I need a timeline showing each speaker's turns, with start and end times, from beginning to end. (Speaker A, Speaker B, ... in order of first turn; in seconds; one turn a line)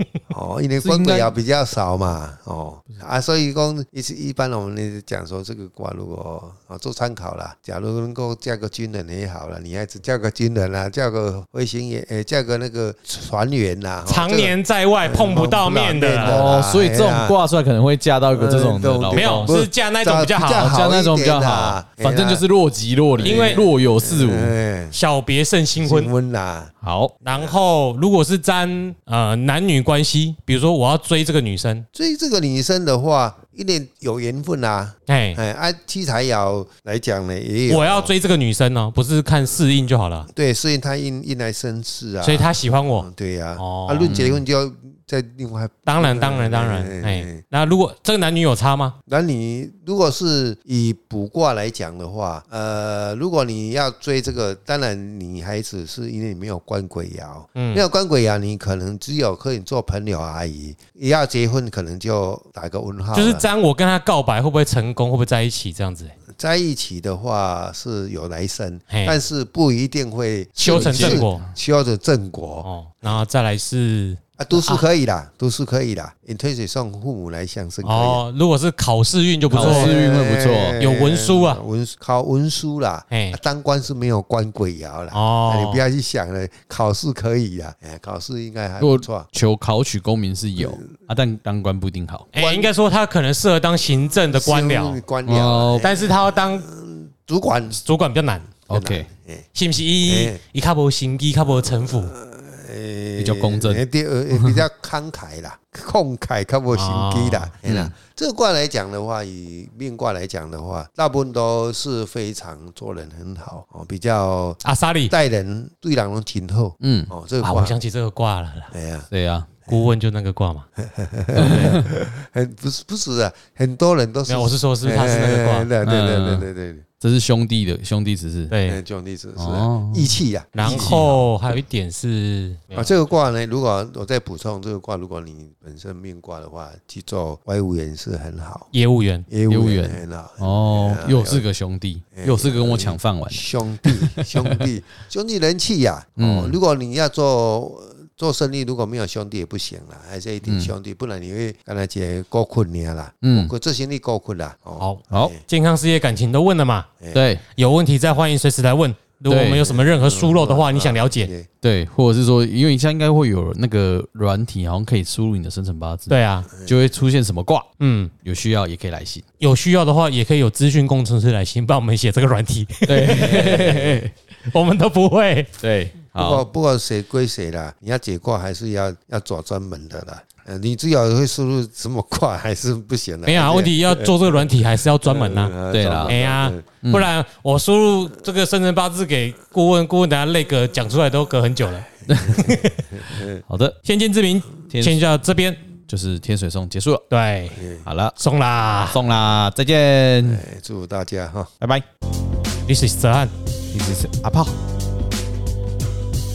Speaker A: 0.3-17.4
Speaker B: 0.8-1.4
Speaker C: 14.1-16.5
Speaker B: 16.2-19.6
Speaker A: 18.3-22.5
Speaker C: 19.1-20.8
Speaker B: 20.6-24.5
Speaker A: 23.2-25.0
Speaker C: 23.2-23.7
Speaker C: 24.9-26.1
Speaker A: 25.8-26.7
Speaker B: 26.8-27.1
Speaker C: 27.2-31.9
Speaker A: 27.3-27.6
Speaker A: 31.9-38.1
Speaker C: 35.1-35.4
Speaker C: 37.7-40.3
Speaker A: 40.3-47.4
Speaker C: 42.2-44.2
Speaker B: 44.0-44.4
Speaker C: 45.9-49.0
Speaker A: 49.1-63.5
Speaker C: 57.6-57.9
Speaker C: 63.1-66.1
Speaker A: 66.4-73.2
Speaker C: 68.9-69.2
Speaker C: 70.6-71.5
Speaker B: 70.7-71.3
Speaker C: 72.6-74.8
Speaker A: 74.4-78.3
Speaker C: 77.8-80.0
Speaker A: 79.5-89.3
Speaker B: 79.5-80.8
Speaker C: 80.8-81.6
Speaker C: 83.1-83.4
Speaker C: 85.1-85.8
Speaker B: 88.8-92.3
Speaker A: 90.6-90.9
Speaker C: 92.3-95.0
Speaker A: 92.3-92.7
Speaker A: 94.3-97.8
Speaker B: 95.3-95.9
Speaker C: 95.8-96.7
Speaker C: 97.8-98.5
Speaker B: 98.7-99.1
Speaker A: 98.7-99.5
Speaker C: 99.5-102.1
Speaker A: 100.0-100.4
Speaker A: 101.5-117.8
Speaker B: 103.2-104.6
Speaker C: 106.7-107.5
Speaker B: 107.7-107.9
Speaker C: 114.6-115.1
Speaker B: 116.8-117.1
Speaker C: 117.4-118.7
Speaker A: 118.7-119.1
Speaker B: 119.1-119.5
Speaker C: 119.7-120.7
Speaker A: 120.8-126.9
Speaker C: 124.3-125.7
Speaker B: 125.8-126.5
Speaker B: 127.0-128.5
Speaker C: 128.5-128.8
Speaker A: 128.7-131.2
Speaker B: 129.4-131.3
Speaker C: 130.5-133.1
Speaker A: 132.8-138.7
Speaker C: 138.7-139.3
Speaker A: 139.3-141.5
Speaker B: 139.5-144.7
Speaker A: 142.1-155.4
Speaker B: 146.2-146.6
Speaker B: 150.4-150.7
Speaker B: 153.2-153.5
Speaker C: 154.8-156.9
Speaker B: 155.1-155.3
Speaker B: 157.1-157.4
Speaker C: 157.6-161.3
Speaker B: 159.3-159.7
Speaker A: 159.6-161.5
Speaker B: 161.6-167.7
Speaker C: 166.1-166.5
Speaker C: 167.8-168.1
Speaker B: 168.2-169.2
Speaker C: 169.4-173.9
Speaker B: 172.9-174.1
Speaker A: 173.3-173.9
Speaker C: 174.5-175.5
Speaker B: 175.6-176.5
Speaker A: 176.2-186.7
Speaker C: 183.2-185.5
Speaker B: 185.7-186.2
Speaker C: 186.1-192.9
Speaker B: 186.8-187.1
Speaker B: 192.1-192.6
Speaker A: 192.3-193.4
Speaker B: 193.5-193.8
Speaker C: 193.8-195.6
Speaker B: 194.7-195.0
Speaker B: 195.9-197.0
Speaker C: 197.1-197.6
Speaker A: 197.6-197.9
Speaker B: 197.8-198.2
Speaker C: 198.2-199.0
Speaker B: 198.9-200.4
Speaker A: 200.2-201.5
Speaker B: 201.6-201.8
Speaker C: 202.7-203.3
Speaker B: 203.7-204.5